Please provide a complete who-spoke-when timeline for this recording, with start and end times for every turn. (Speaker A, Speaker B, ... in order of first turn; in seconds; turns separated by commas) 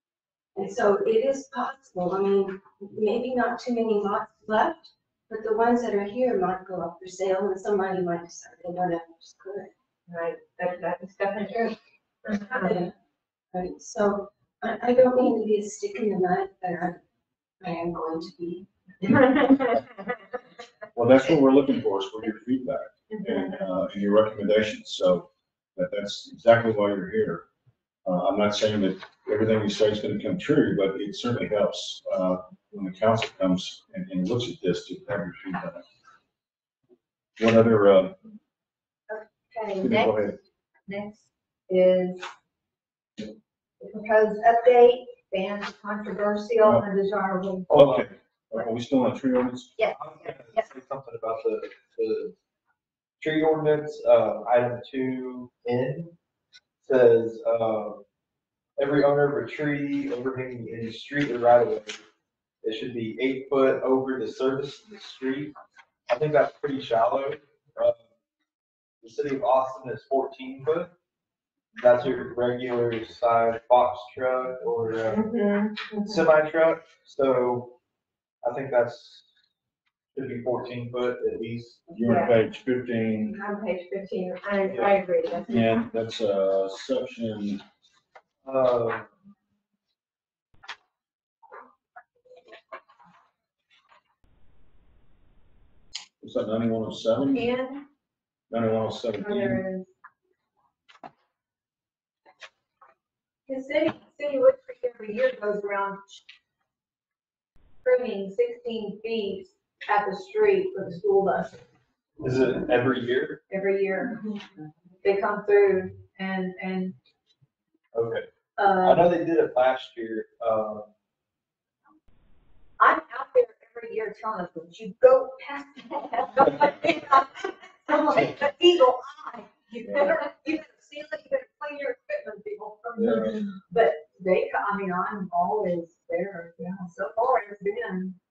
Speaker A: 0.5-9.7, Speaker B: 10.1-12.8, Speaker A: 12.5-12.9, Speaker A: 13.5-17.0, Speaker A: 17.6-19.2, Speaker C: 20.9-27.4, Speaker C: 28.0-35.8, Speaker C: 37.4-38.2, Speaker D: 39.1-40.2, Speaker C: 39.8-40.4, Speaker D: 40.9-41.2, Speaker D: 41.7-42.2, Speaker D: 43.8-47.7, Speaker E: 47.7-48.0, Speaker C: 47.7-49.8, Speaker E: 49.9-52.3, Speaker E: 53.2-56.1, Speaker E: 56.8-58.0, Speaker E: 58.8-62.0, Speaker E: 62.6-65.5, Speaker E: 66.1-68.0, Speaker E: 69.0-70.9, Speaker E: 71.8-75.3, Speaker B: 75.1-76.2, Speaker E: 76.0-77.7, Speaker E: 78.4-79.2, Speaker E: 80.1-81.8, Speaker C: 81.9-83.3, Speaker B: 82.0-82.3, Speaker B: 83.3-85.8, Speaker E: 84.7-85.0, Speaker C: 85.5-87.6, Speaker E: 88.4-89.1, Speaker C: 96.2-97.5, Speaker D: 97.3-97.8, Speaker C: 98.5-99.6, Speaker D: 99.2-99.9, Speaker D: 103.5-106.2, Speaker D: 107.8-111.6, Speaker E: 112.2-113.4, Speaker D: 113.5-114.4, Speaker D: 115.0-117.0, Speaker E: 117.9-120.9, Speaker D: 118.6-119.1, Speaker D: 122.8-138.2, Speaker C: 129.8-130.2, Speaker C: 132.9-133.4